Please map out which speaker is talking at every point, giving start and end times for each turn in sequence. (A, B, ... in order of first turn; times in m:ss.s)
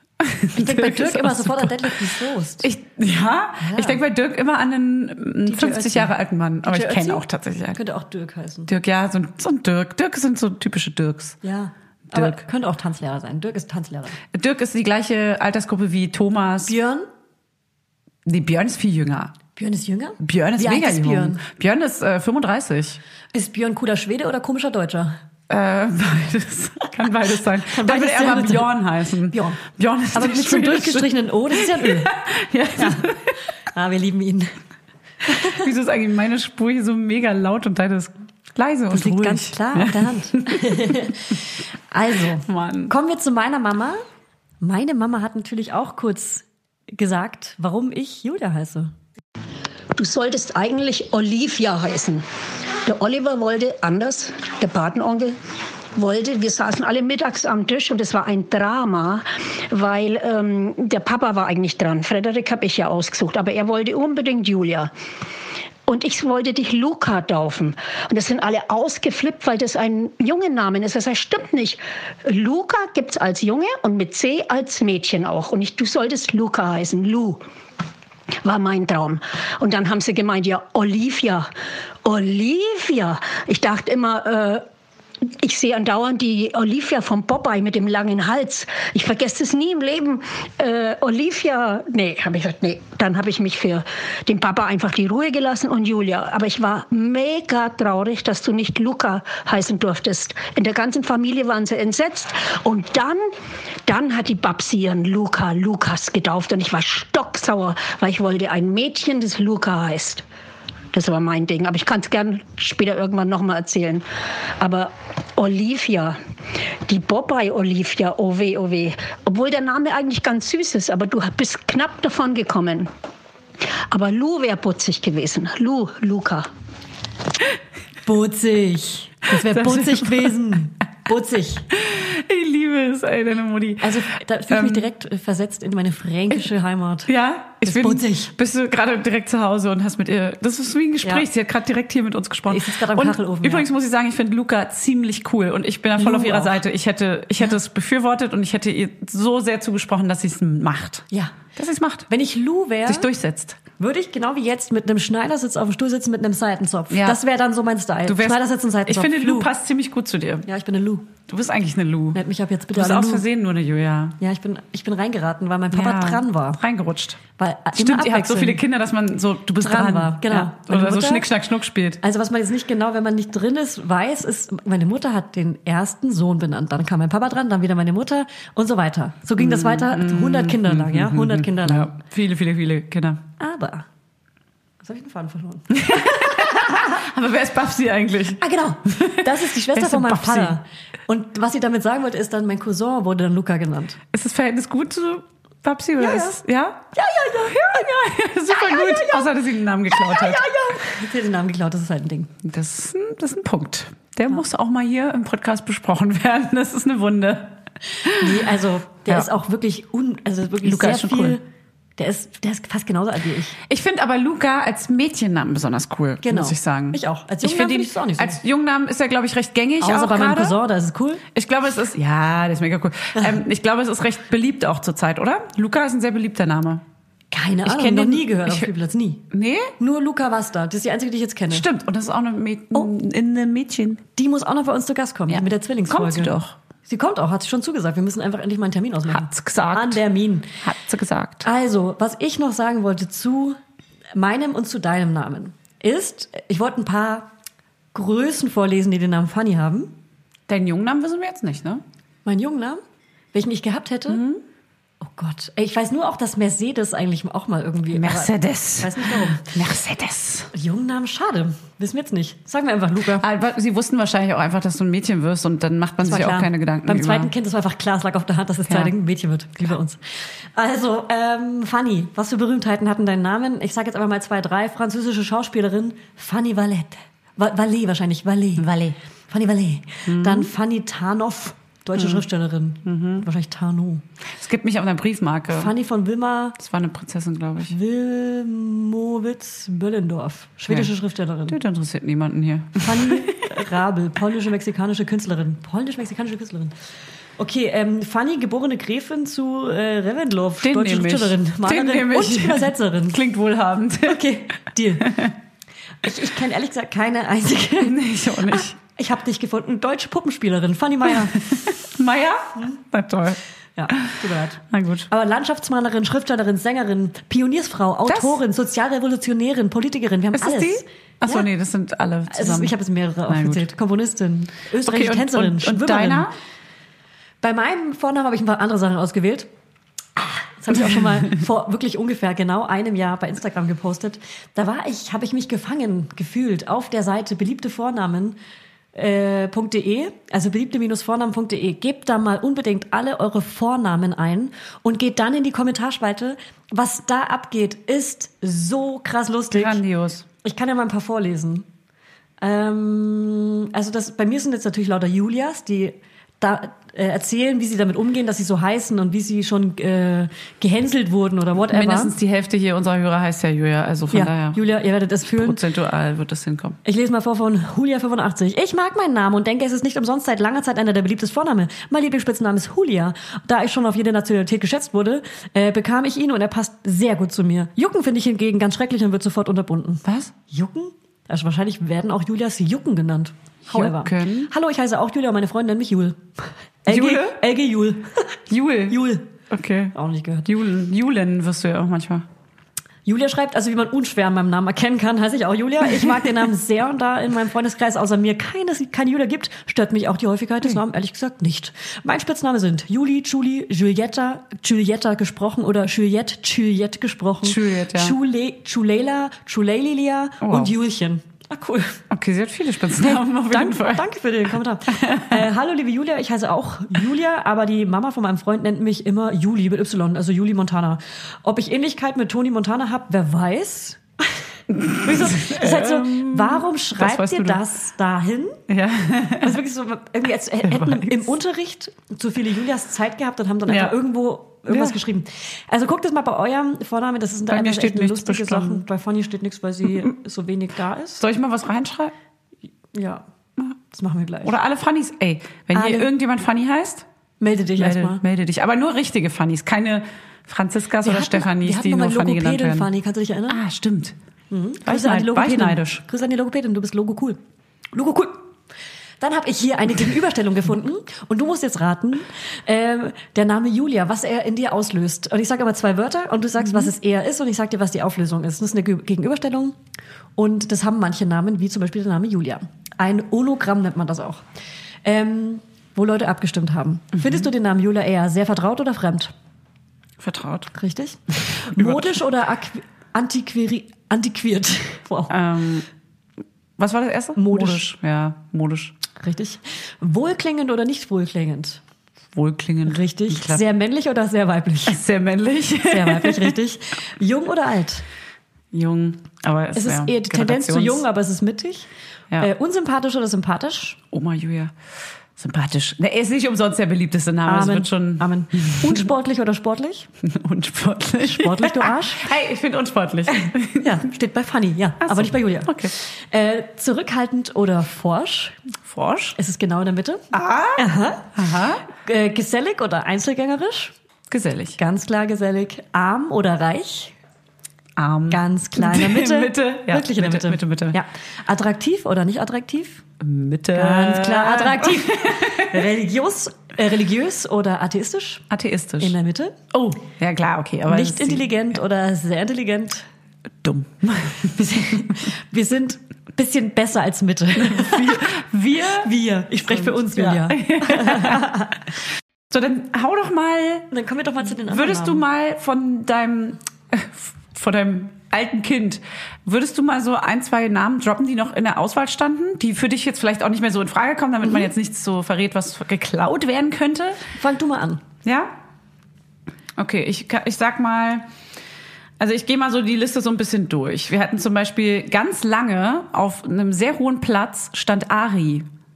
0:00.2-0:02.1 A
0:00.5-0:02.7 B
0:02.6-0:07.8 A
0:03.6-0:04.0 B
0:05.5-0:06.1 B
0:06.6-0:08.7 B
0:08.7-0:11.4 A
0:11.4-0:14.2 B
0:12.1-0:12.4 A
0:14.3-0:16.7 A
0:16.6-0:17.1 B
0:18.2-0:19.4 A
0:19.6-0:21.4 B
0:20.2-0:23.0 A
0:23.3-0:25.2 B
0:25.5-0:33.3 A
0:27.7-0:28.7 B
0:29.3-0:29.6 B
0:30.1-0:32.1 B
0:32.8-0:33.1 B
0:33.7-0:34.6 B
0:35.3-0:41.0 A
0:35.3-0:35.6 B
0:38.9-0:44.0 B
0:42.4-0:42.9 A
0:44.6-0:48.9 B
0:50.0-0:52.2 C
0:52.8-0:55.4 C
0:56.0-1:04.9 C
1:05.9-1:17.4 C
1:18.4-1:21.5 C
1:22.0-1:24.6 C
1:25.3-1:43.3 C
1:43.9-1:50.2 C
1:50.9-1:54.1 C
1:54.6-1:56.2 C
1:56.9-2:02.9 C
2:03.9-2:06.5 C
2:08.0-2:11.6 B
2:09.3-2:10.3 A
2:11.7-2:14.9 A
2:13.8-2:17.1 B
2:17.1-2:32.1 A
2:17.6-2:18.3 B
2:22.5-2:23.6 B
2:26.0-2:26.6 B
2:32.1-2:33.1 B
2:32.9-2:33.6 A
2:33.8-2:39.5 B
2:36.9-2:37.2 A
2:38.1-2:40.5 A
2:40.5-2:41.1 B
2:41.3-2:42.2 A
2:42.1-2:43.2 B
2:42.7-2:44.2 A
2:44.2-2:46.6 B
2:45.7-2:47.2 A
2:47.4-2:48.6 B
2:47.8-2:52.0 A
2:49.6-2:51.3 B
2:52.0-3:01.9 B
2:59.4-3:03.2 A
3:03.4-3:03.8 B
3:04.8-3:07.0 B
3:05.7-3:10.6 A
3:08.4-3:14.0 B
3:14.1-3:20.4 A
3:16.0-3:16.4 B
3:16.9-3:17.9 B
3:18.5-3:19.4 B
3:19.9-3:22.3 B
3:22.4-3:28.5 A
3:28.2-3:31.4 B
3:30.6-3:31.4 A
3:32.0-3:33.6 B
3:33.7-3:40.6 A
3:36.2-3:38.4 B
3:39.8-3:41.2 B
3:41.3-3:46.8 A
3:47.3-3:49.2 B
3:47.6-3:48.7 A
3:49.3-3:49.7 A
3:49.8-3:51.6 B
3:51.5-3:54.0 A
3:54.2-3:56.4 B
3:55.3-3:56.6 A
3:56.9-4:00.5 B
3:59.1-4:00.0 A
4:00.6-4:01.4 A
4:01.4-4:03.6 B
4:04.1-4:07.3 B
4:07.9-4:09.9 B
4:10.5-4:11.8 A
4:12.2-4:12.8 B
4:13.3-4:14.2 B
4:14.1-4:14.4 A
4:15.0-4:19.4 B
4:17.9-4:20.5 A
4:20.5-4:23.2 B
4:23.2-4:27.3 A
4:26.0-4:30.0 B
4:28.7-4:28.9 A
4:30.6-4:38.6 B
4:38.6-4:39.0 A
4:39.3-4:44.0 B
4:40.1-4:40.5 A
4:42.0-4:42.2 A
4:42.8-4:43.3 A
4:44.4-4:45.7 A
4:45.5-4:46.6 B
4:46.6-4:47.8 A
4:47.7-4:51.6 B
4:51.5-4:53.5 A
4:52.8-4:56.7 B
4:57.4-5:03.2 B
5:00.6-5:04.2 A
5:04.0-5:05.2 B
5:05.0-5:05.3 A
5:06.0-5:07.9 B
5:07.8-5:08.8 A
5:08.5-5:11.5 B
5:11.5-5:13.4 A
5:13.8-5:21.5 B
5:14.7-5:15.1 A
5:18.1-5:18.4 A
5:20.4-5:22.7 A
5:22.3-5:26.3 B
5:23.3-5:23.6 A
5:24.8-5:26.3 A
5:27.4-5:29.5 B
5:30.2-5:38.4 B
5:30.8-5:31.1 A
5:38.9-5:49.8 B
5:49.5-5:50.2 A
5:50.4-5:51.6 B
5:52.4-6:02.1 B
6:01.7-6:04.6 A
6:04.1-6:05.6 B
6:05.3-6:06.8 A
6:06.8-6:26.2 B
6:20.1-6:20.3 A
6:23.7-6:24.5 A
6:26.9-6:28.3 B
6:26.9-6:27.4 A
6:28.5-6:29.9 A
6:28.9-6:29.3 B
6:29.9-6:30.5 B
6:30.4-6:32.2 A
6:33.1-6:52.0 B
6:47.4-6:48.2 A
6:50.4-6:50.7 A
6:52.1-6:54.1 A
6:53.0-7:04.0 B
6:54.9-6:55.4 A
7:04.7-7:07.6 A
7:05.0-7:08.6 B
7:08.7-7:09.6 A
7:09.4-7:21.2 B
7:10.6-7:11.3 A
7:13.7-7:14.0 A
7:14.7-7:15.0 A
7:17.5-7:18.8 A
7:21.2-7:22.1 A
7:22.9-7:23.2 B
7:23.9-7:24.5 B
7:24.4-7:27.0 A
7:25.7-7:26.1 B
7:27.4-7:28.2 B
7:27.8-7:32.9 A
7:31.0-7:33.6 B
7:33.5-7:34.1 A
7:34.5-7:37.4 B
7:34.9-7:36.0 A
7:37.9-7:38.5 B
7:39.2-7:49.8 B
7:50.4-7:54.4 B
7:55.0-7:59.3 B
8:00.2-8:00.7 A
8:00.7-8:05.3 B
8:01.5-8:02.2 A
8:05.3-8:05.9 A
8:06.8-8:08.9 A
8:07.4-8:07.8 B
8:09.2-8:11.8 B
8:12.4-8:13.6 A
8:12.9-8:15.0 B
8:14.9-8:16.6 A
8:15.9-8:18.0 B
8:18.7-8:21.0 A
8:19.8-8:21.9 B
8:22.4-8:24.0 B
8:24.1-8:24.7 A
8:25.4-8:29.1 A
8:27.4-8:30.1 B
8:30.2-8:34.0 A
8:31.2-8:32.3 B
8:33.8-8:38.6 B
8:35.0-8:35.9 A
8:38.9-8:39.4 A
8:39.4-8:40.2 B
8:40.3-8:41.8 A
8:40.8-8:41.4 B
8:41.9-8:43.9 B
8:44.3-8:44.8 A
8:44.8-8:47.1 B
8:48.0-8:51.0 A
8:48.3-8:53.0 B
8:53.2-8:55.8 A
8:53.7-8:58.4 B
8:58.5-8:59.2 A
8:59.0-8:59.6 B
8:59.7-9:01.5 A
9:00.9-9:03.0 B
9:03.6-9:05.1 A
9:04.6-9:08.3 B
9:07.6-9:09.1 A
9:09.0-9:11.7 B
9:09.6-9:11.6 A
9:12.5-9:13.9 A
9:13.9-9:15.2 B
9:14.6-9:27.2 A
9:24.4-9:24.7 B
9:27.4-9:28.0 B
9:28.2-9:28.5 A
9:29.8-9:31.2 A
9:32.2-9:38.7 A